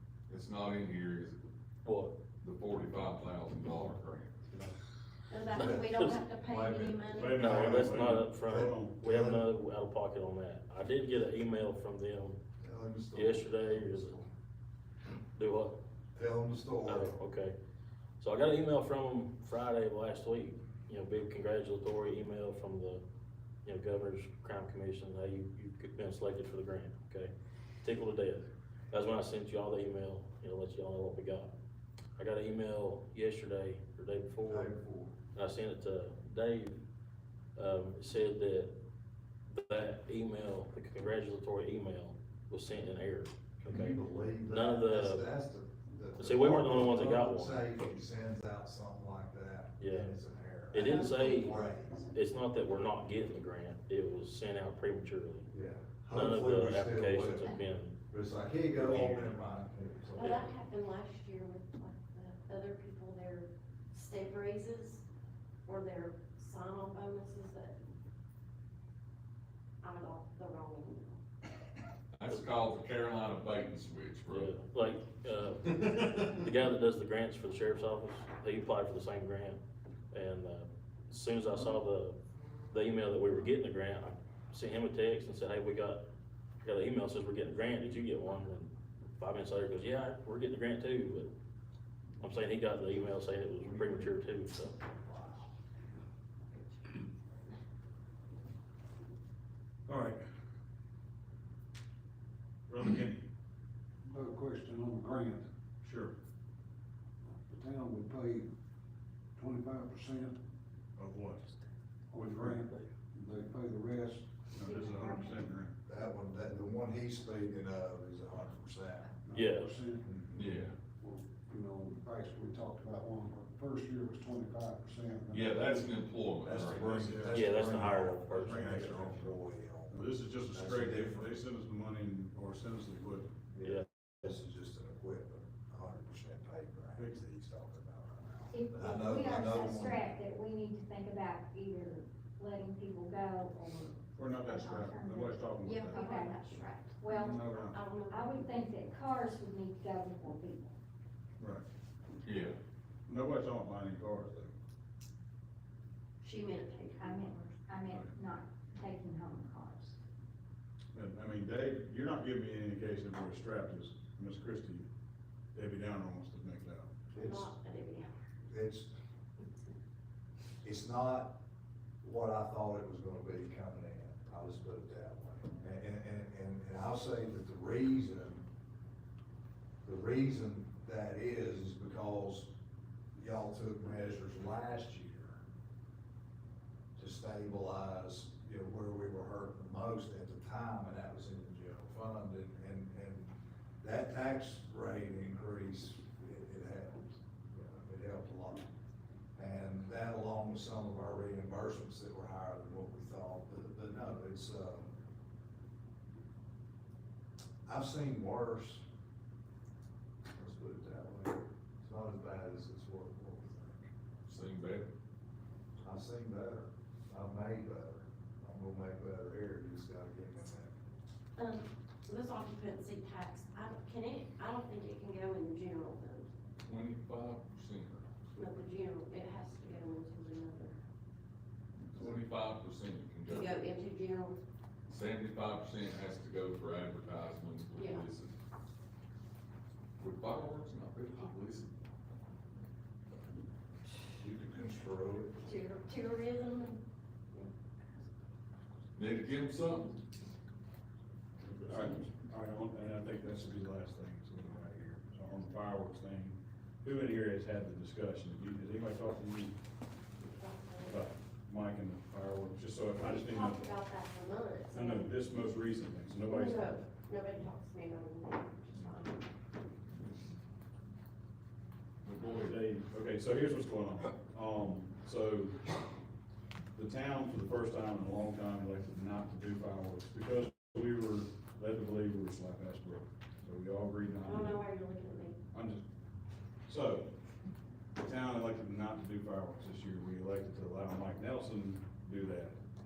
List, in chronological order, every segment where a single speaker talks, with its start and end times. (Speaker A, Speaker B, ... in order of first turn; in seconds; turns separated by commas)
Speaker A: 0.3-1.4, Speaker B: 1.8-2.2, Speaker A: 2.4-4.5, Speaker C: 5.3-7.3, Speaker D: 5.5-9.5, Speaker B: 5.6-6.1, Speaker E: 7.1-8.9, Speaker B: 7.4-12.4, Speaker D: 12.6-14.2, Speaker B: 13.1-14.3, Speaker B: 15.3-15.8, Speaker D: 16.1-17.2, Speaker B: 16.8-17.5, Speaker B: 18.2-23.0, Speaker B: 23.6-31.5, Speaker B: 32.2-34.7, Speaker D: 34.4-35.1, Speaker B: 35.3-36.8, Speaker B: 37.5-38.7, Speaker B: 39.5-45.3, Speaker D: 43.6-51.9, Speaker B: 46.2-47.7, Speaker B: 49.8-50.1, Speaker B: 50.7-55.5, Speaker D: 55.5-57.6, Speaker B: 56.1-58.0, Speaker D: 58.1-60.5, Speaker B: 58.7-59.3, Speaker C: 60.1-65.0, Speaker C: 65.6-67.8, Speaker C: 69.8-71.2, Speaker A: 72.2-74.6, Speaker B: 74.3-79.6, Speaker B: 80.1-82.2, Speaker B: 82.7-86.0, Speaker B: 86.6-91.3, Speaker B: 92.2-94.7, Speaker D: 93.6-94.2, Speaker D: 94.8-95.5, Speaker C: 96.5-97.0, Speaker E: 99.9-100.2, Speaker E: 102.7-103.2, Speaker F: 104.0-105.5, Speaker E: 105.8-106.1, Speaker F: 107.3-108.5, Speaker F: 109.3-110.4, Speaker E: 111.0-111.5, Speaker F: 112.1-114.5, Speaker E: 112.2-112.6, Speaker E: 114.5-115.7, Speaker G: 114.7-115.3, Speaker D: 115.8-119.1, Speaker F: 119.2-120.3, Speaker B: 119.3-119.7, Speaker D: 120.0-120.5, Speaker A: 120.3-120.8, Speaker F: 121.0-125.9, Speaker A: 125.3-127.2, Speaker D: 126.4-131.3, Speaker E: 126.8-129.4, Speaker B: 127.3-128.8, Speaker E: 129.9-133.3, Speaker D: 133.5-140.1, Speaker E: 137.0-137.2, Speaker G: 138.5-145.3, Speaker E: 144.1-146.2, Speaker C: 145.6-148.7, Speaker G: 145.9-146.4, Speaker G: 147.0-147.3, Speaker E: 147.1-147.8, Speaker G: 148.1-150.8, Speaker E: 151.4-151.6, Speaker A: 152.2-152.6, Speaker E: 153.1-154.5, Speaker C: 156.2-157.6, Speaker G: 157.0-160.0, Speaker E: 160.9-164.9, Speaker E: 165.5-166.9, Speaker C: 167.1-168.1, Speaker D: 167.1-167.5, Speaker D: 168.5-168.9, Speaker D: 170.6-171.4, Speaker D: 172.0-178.4, Speaker D: 179.8-182.6, Speaker D: 183.1-185.4, Speaker D: 186.9-198.7, Speaker D: 199.3-204.9, Speaker D: 207.7-208.8, Speaker D: 210.3-213.9, Speaker A: 214.2-214.9, Speaker D: 215.8-220.7, Speaker C: 221.4-226.3, Speaker A: 226.6-228.1, Speaker C: 228.3-230.8, Speaker A: 231.9-233.6, Speaker C: 233.2-234.4, Speaker A: 234.9-238.3, Speaker C: 237.7-238.1, Speaker A: 240.0-241.7, Speaker D: 244.2-245.5, Speaker C: 245.4-247.5, Speaker A: 248.9-250.0, Speaker E: 251.4-259.6, Speaker C: 260.2-261.1, Speaker E: 260.9-263.6, Speaker C: 263.0-265.1, Speaker E: 264.7-266.8, Speaker C: 266.3-269.2, Speaker A: 272.0-272.6, Speaker E: 272.4-275.6, Speaker E: 276.7-284.6, Speaker C: 284.2-285.4, Speaker E: 285.5-285.8, Speaker E: 286.7-287.1, Speaker E: 288.0-292.6